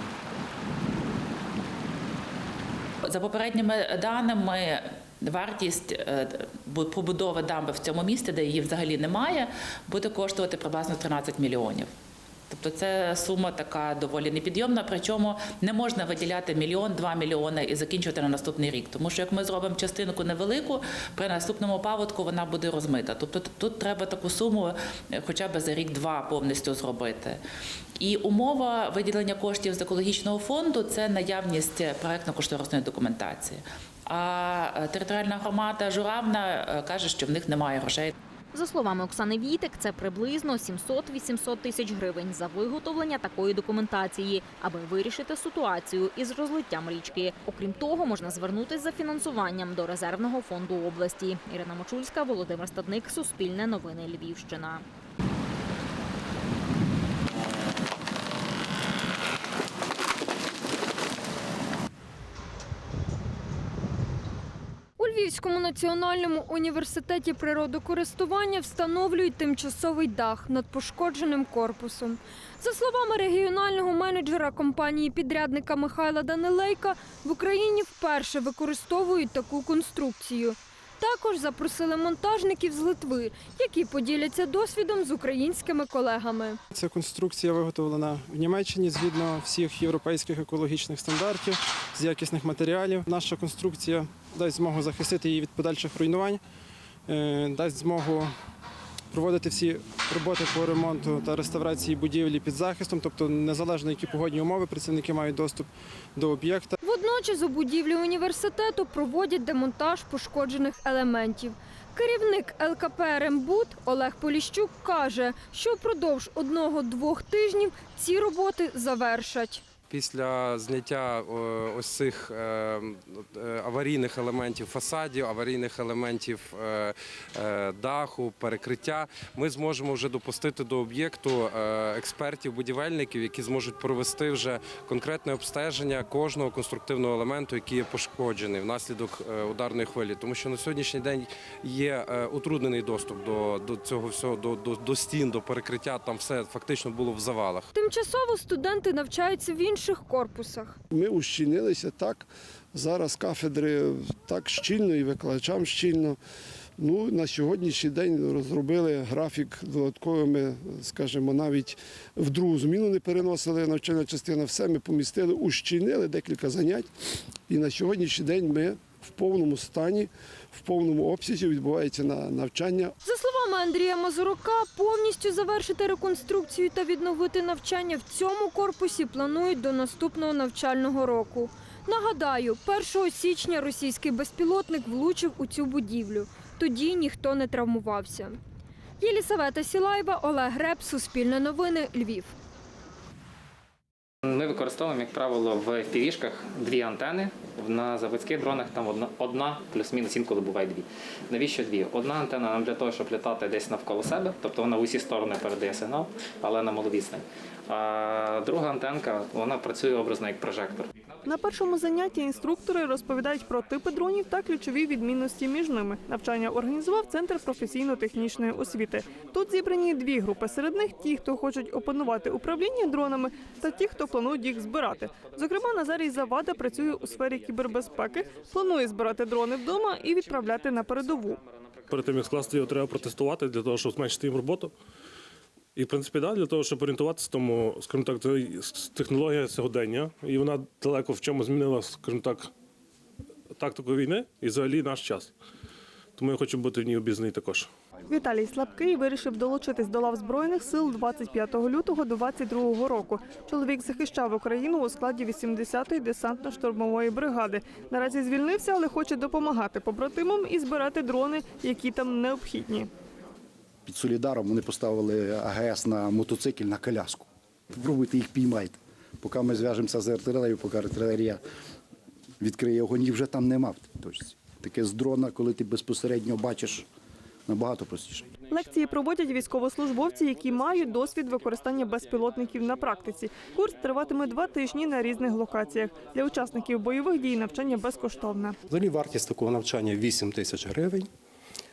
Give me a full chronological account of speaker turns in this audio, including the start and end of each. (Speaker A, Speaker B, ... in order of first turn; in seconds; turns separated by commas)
Speaker A: 3.0-11.9, Speaker A: 12.5-27.4, Speaker A: 28.0-38.1, Speaker B: 38.5-54.9, Speaker C: 65.0-86.5, Speaker D: 86.7-96.4, Speaker D: 97.1-98.3, Speaker D: 99.1-106.8, Speaker C: 106.9-119.6, Speaker E: 119.9-147.7, Speaker C: 147.8-152.3, Speaker F: 150.9-152.2, Speaker F: 152.7-156.1, Speaker C: 153.2-156.2, Speaker F: 156.8-158.1, Speaker C: 157.3-161.8, Speaker F: 158.7-161.4, Speaker F: 162.2-166.8, Speaker C: 162.4-166.9, Speaker F: 167.5-169.9, Speaker C: 167.7-188.4, Speaker F: 170.7-172.7, Speaker C: 189.0-192.3, Speaker G: 194.3-210.9, Speaker H: 211.3-231.4, Speaker I: 231.9-234.7, Speaker I: 235.8-242.5, Speaker I: 243.6-245.3, Speaker I: 246.2-247.7, Speaker H: 248.1-262.9, Speaker J: 263.9-271.4, Speaker J: 272.4-276.9, Speaker J: 277.5-278.3, Speaker H: 278.5-288.6, Speaker K: 288.7-291.1